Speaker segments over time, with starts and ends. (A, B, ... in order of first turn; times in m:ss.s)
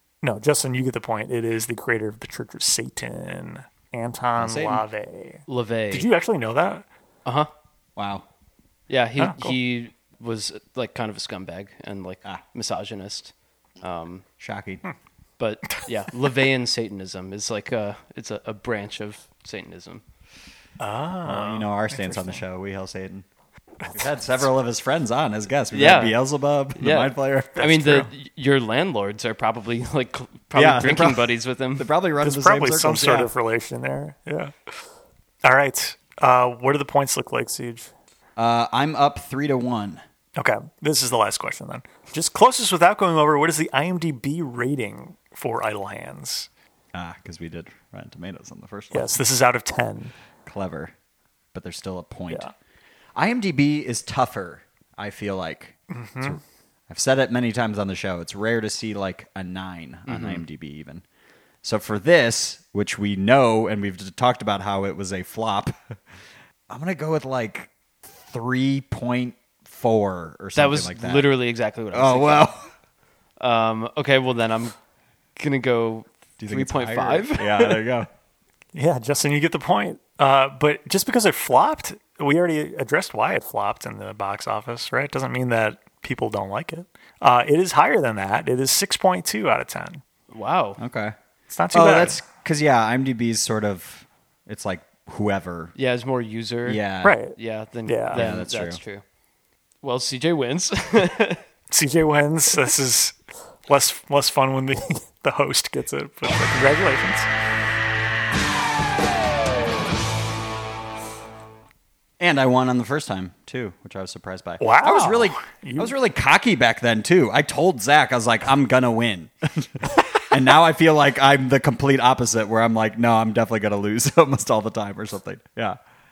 0:00.2-0:06.9 A
0:04.4-0:04.8 B
0:05.5-0:06.1 C
0:07.2-0:07.5 C
0:08.0-0:08.2 B
0:08.9-0:14.2 C
0:09.2-0:09.6 A
0:14.4-0:14.8 B
0:15.4-0:20.0 C
0:20.8-0:22.4 A
0:21.2-0:23.3 B
0:23.9-0:28.0 B
0:25.7-0:26.2 C
0:26.8-0:31.9 C
0:27.6-0:28.1 A
0:30.5-0:33.3 B
0:32.2-0:34.7 A
0:35.4-0:37.9 A
0:38.4-0:40.0 B
0:40.4-0:46.5 A
0:46.9-0:49.2 B
0:48.9-0:50.1 A
0:50.4-0:50.9 B
0:51.5-0:52.5 B
0:53.2-1:01.0 B
0:55.9-0:56.4 A
1:00.1-1:00.4 C
1:01.6-1:06.0 B
1:06.7-1:11.3 B
1:10.6-1:12.5 C
1:11.9-1:12.7 B
1:13.4-1:14.8 C
1:15.4-1:17.8 C
1:16.4-1:18.1 B
1:18.7-1:30.0 A
1:30.3-1:30.8 C
1:30.8-1:31.2 B
1:31.5-1:32.2 A
1:31.7-1:35.7 B
1:35.8-1:36.8 C
1:36.7-1:37.2 B
1:37.0-1:37.4 A
1:37.4-1:39.0 C
1:37.9-1:38.2 A
1:38.1-1:38.8 B
1:39.8-1:41.4 C
1:41.7-1:47.3 A
1:52.2-2:05.8 B
1:54.6-1:56.0 A